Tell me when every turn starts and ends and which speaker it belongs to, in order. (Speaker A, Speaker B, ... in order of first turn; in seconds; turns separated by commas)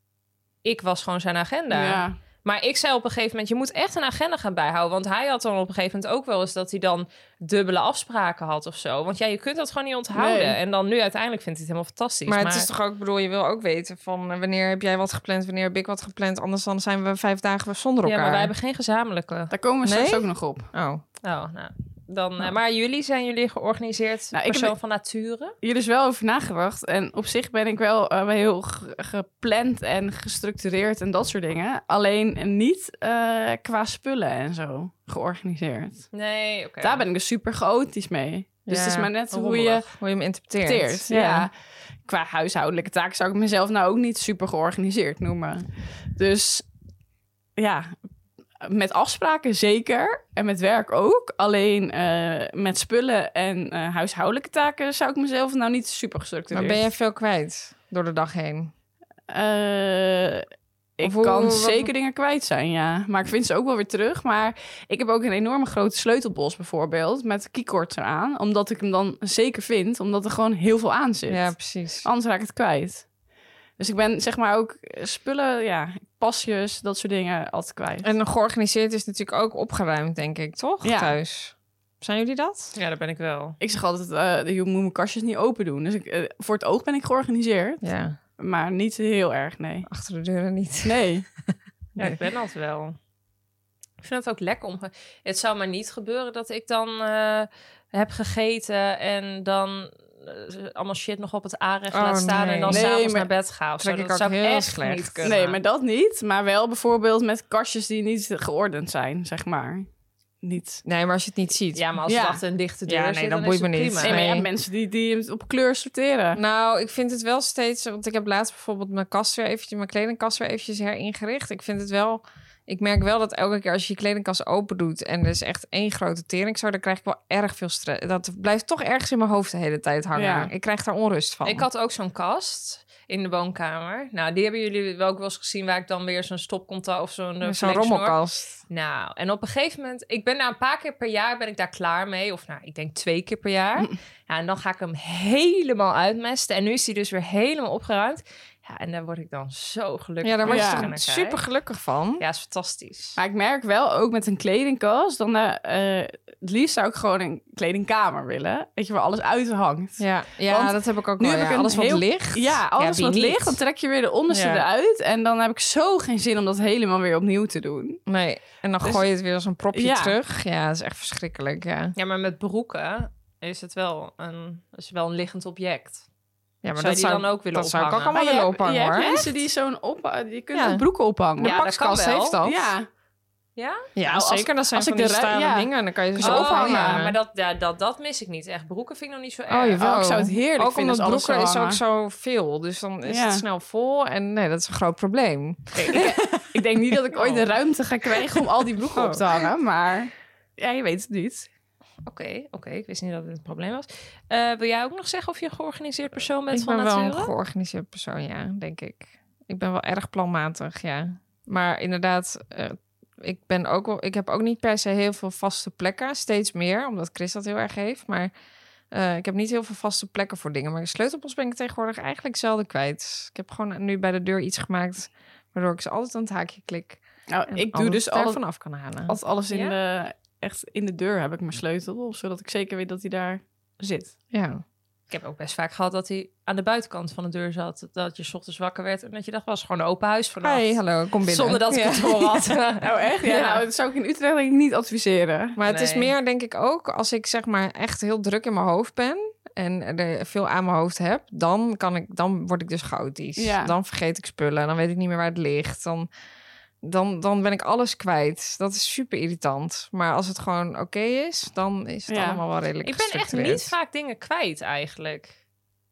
Speaker A: 0.6-12.7, Speaker B: 1.7-2.2, Speaker B: 10.1-10.6, Speaker C: 12.3-18.5, Speaker A: 18.0-19.5, Speaker B: 19.5-20.7, Speaker C: 19.8-21.0, Speaker A: 21.2-25.5, Speaker B: 24.3-24.7, Speaker B: 25.6-36.1, Speaker A: 36.1-37.0, Speaker B: 36.8-39.9, Speaker C: 38.7-39.1, Speaker A: 39.3-39.8, Speaker C: 39.9-41.1, Speaker B: 40.6-41.5, Speaker A: 41.1-41.4, Speaker B: 42.0-46.6, Speaker B: 47.6-47.9, Speaker B: 48.6-56.8, Speaker C: 56.5-58.7, Speaker B: 59.3-60.5, Speaker B: 61.0-73.1, Speaker C: 61.0-61.9, Speaker C: 71.3-72.0, Speaker B: 73.8-78.1, Speaker C: 78.0-82.7, Speaker B: 80.8-81.1, Speaker A: 82.7-83.6, Speaker B: 83.6-87.8, Speaker C: 87.8-88.2, Speaker B: 88.4-89.9, Speaker C: 89.9-91.0, Speaker B: 90.8-91.2, Speaker A: 92.0-93.0, Speaker A: 94.0-105.6, Speaker C: 101.9-102.8, Speaker B: 102.7-103.3, Speaker C: 103.8-105.3, Speaker B: 105.2-109.9, Speaker B: 110.4-110.8, Speaker C: 110.8-111.8, Speaker A: 111.7-114.3, Speaker B: 112.1-112.4, Speaker C: 112.9-114.5, Speaker B: 114.0-116.4, Speaker C: 116.3-131.7, Speaker B: 130.1-130.5, Speaker A: 131.4-138.2, Speaker C: 137.4-138.6, Speaker A: 138.7-151.4, Speaker C: 150.2-152.2, Speaker B: 150.5-150.9, Speaker A: 152.2-153.2, Speaker B: 153.2-168.0, Speaker C: 160.0-162.6, Speaker A: 162.8-163.6, Speaker C: 164.3-164.7, Speaker C: 168.1-171.9, Speaker B: 169.7-170.2, Speaker A: 171.9-176.0, Speaker C: 176.6-179.2, Speaker A: 176.8-178.2, Speaker B: 178.1-181.6, Speaker A: 178.9-179.3, Speaker C: 180.5-180.8, Speaker A: 181.4-182.3, Speaker C: 181.4-182.7, Speaker B: 182.4-182.9, Speaker A: 183.6-183.9, Speaker C: 183.9-187.1, Speaker B: 184.0-187.0, Speaker A: 186.2-189.8, Speaker C: 189.5-197.0, Speaker B: 189.8-191.8, Speaker B: 193.0-193.4, Speaker B: 195.7-201.5, Speaker A: 197.2-197.4, Speaker C: 198.9-199.4, Speaker A: 202.0-207.3, Speaker C: 206.5-218.3, Speaker C: 218.9-229.2, Speaker B: 227.3-228.4, Speaker B: 229.1-234.1, Speaker A: 229.5-229.7, Speaker C: 234.3-234.6, Speaker A: 235.1-240.7, Speaker C: 240.4-242.5, Speaker A: 241.2-243.6, Speaker B: 242.8-245.6, Speaker C: 245.6-256.1, Speaker A: 245.7-246.1, Speaker B: 253.4-253.7, Speaker C: 256.8-263.7, Speaker B: 262.1-262.4, Speaker A: 262.8-265.3